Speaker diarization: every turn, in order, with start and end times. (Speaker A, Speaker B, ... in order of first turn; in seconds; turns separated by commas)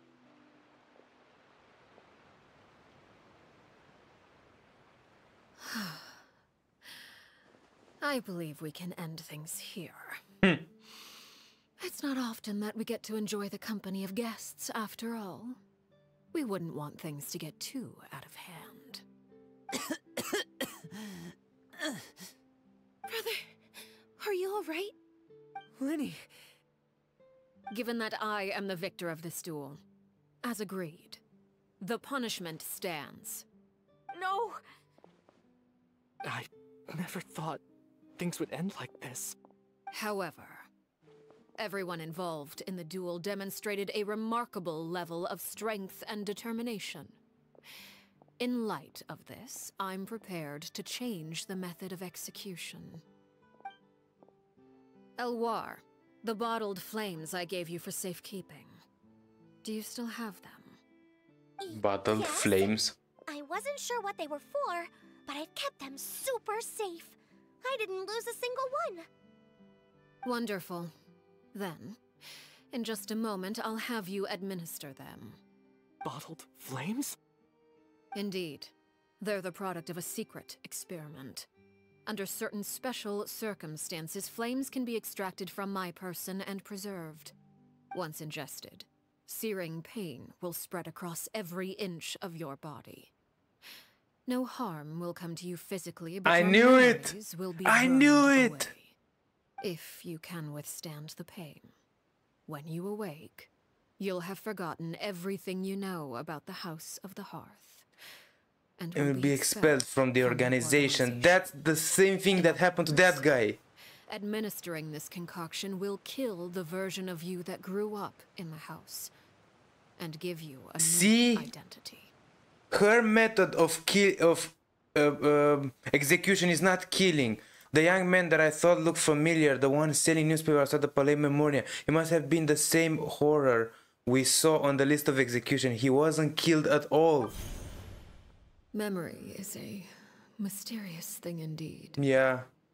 Speaker A: 5.6-6.2, Speaker A: 8.0-10.2, Speaker A: 11.8-15.6, Speaker A: 16.3-19.0, Speaker B: 24.2-24.9, Speaker C: 25.8-26.3, Speaker A: 27.7-29.8, Speaker A: 30.4-31.2, Speaker A: 31.8-33.5, Speaker B: 34.1-34.6, Speaker C: 36.2-37.6, Speaker C: 38.2-39.4, Speaker A: 39.9-40.7, Speaker A: 41.6-47.2, Speaker A: 48.4-53.0, Speaker A: 55.2-58.8, Speaker A: 59.6-60.8, Speaker D: 61.7-62.9, Speaker B: 63.3-68.9, Speaker A: 70.2-70.9, Speaker A: 71.5-72.0, Speaker A: 72.7-75.4, Speaker C: 76.0-77.2, Speaker A: 78.1-81.5, Speaker A: 82.0-87.3, Speaker A: 87.9-93.1, Speaker A: 94.2-99.0, Speaker D: 96.2-98.7, Speaker A: 99.6-101.7, Speaker A: 102.5-107.9, Speaker A: 108.8-111.4, Speaker D: 108.9-113.6, Speaker A: 112.3-113.2, Speaker A: 114.1-119.1, Speaker A: 120.0-122.1, Speaker D: 120.8-121.5, Speaker D: 122.7-137.3, Speaker A: 138.7-142.0, Speaker D: 142.0-142.5